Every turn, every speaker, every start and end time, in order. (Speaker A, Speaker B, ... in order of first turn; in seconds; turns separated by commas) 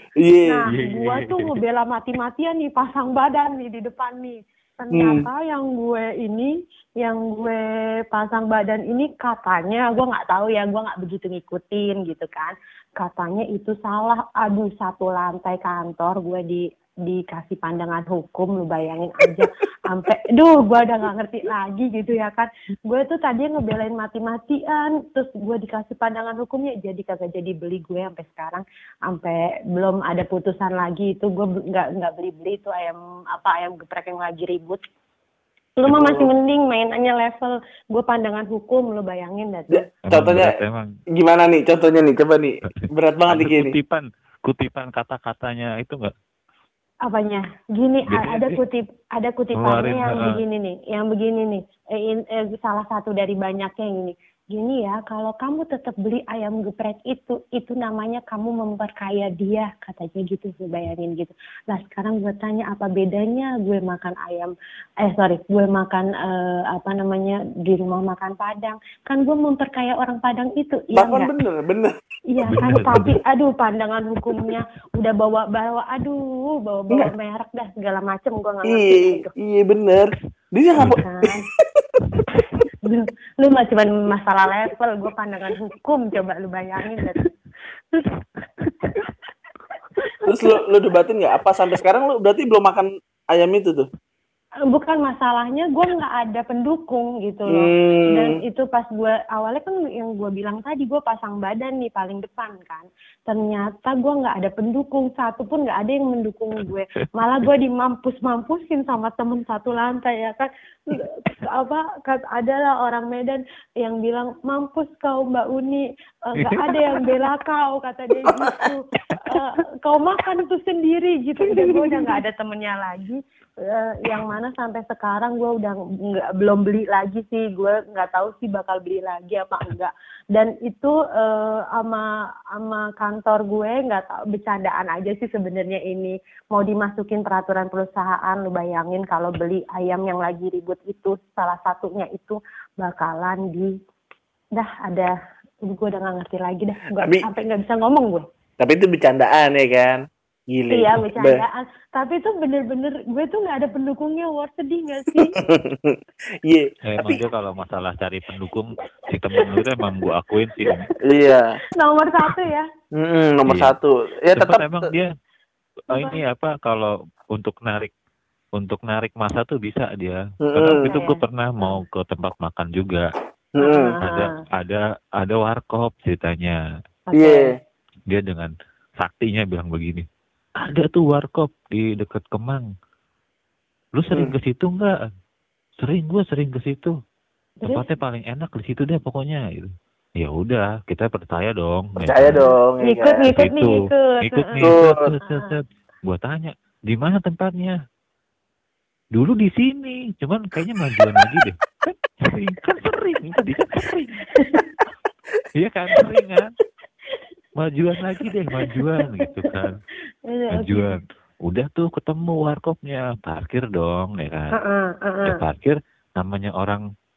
Speaker A: 0.2-0.7, Speaker B: 0.5-34.8, Speaker C: 0.7-1.6, Speaker A: 4.9-5.3, Speaker B: 35.8-39.9, Speaker A: 35.9-36.3, Speaker A: 39.7-40.5, Speaker C: 40.1-40.9, Speaker A: 41.1-43.7, Speaker C: 42.8-46.1, Speaker B: 47.0-71.3, Speaker C: 48.1-48.6, Speaker C: 49.5-50.4, Speaker A: 70.9-71.9, Speaker B: 72.3-79.3, Speaker C: 72.5-73.1, Speaker A: 78.6-81.4, Speaker B: 81.0-81.4, Speaker B: 82.8-87.3, Speaker C: 87.0-87.2, Speaker C: 88.6-89.1, Speaker B: 90.0-90.2, Speaker A: 90.2-93.9, Speaker B: 94.7-143.7, Speaker A: 97.5-98.4, Speaker C: 116.4-117.2, Speaker A: 118.2-118.7, Speaker C: 119.1-119.4, Speaker C: 121.4-122.2, Speaker B: 144.6-145.1, Speaker B: 145.7-148.2, Speaker A: 146.9-147.3, Speaker A: 148.6-151.4, Speaker B: 150.7-155.3, Speaker A: 155.2-157.2, Speaker C: 156.8-160.9, Speaker B: 159.4-159.7, Speaker B: 160.6-161.0, Speaker A: 161.0-161.6, Speaker B: 161.8-162.7, Speaker A: 162.9-164.9, Speaker C: 163.5-163.7, Speaker C: 164.3-165.1, Speaker B: 165.9-166.2, Speaker C: 165.9-167.9, Speaker C: 168.6-173.1, Speaker A: 170.4-170.9, Speaker B: 170.9-171.8, Speaker A: 173.6-174.0, Speaker B: 173.6-174.4, Speaker C: 174.0-176.6, Speaker B: 177.1-177.5, Speaker A: 177.1-177.6, Speaker C: 178.1-180.1, Speaker C: 180.6-182.7, Speaker C: 183.9-185.0, Speaker C: 185.8-186.9, Speaker C: 187.6-192.4, Speaker A: 192.0-193.2, Speaker B: 192.4-194.7, Speaker C: 193.3-197.8, Speaker A: 194.6-195.1, Speaker B: 195.3-195.5, Speaker C: 199.1-201.6, Speaker C: 202.2-204.2, Speaker B: 204.3-204.6, Speaker C: 205.5-206.5, Speaker C: 207.6-209.8, Speaker B: 208.6-209.5, Speaker B: 210.3-210.9, Speaker C: 210.5-214.5, Speaker B: 214.5-215.4, Speaker C: 215.2-216.8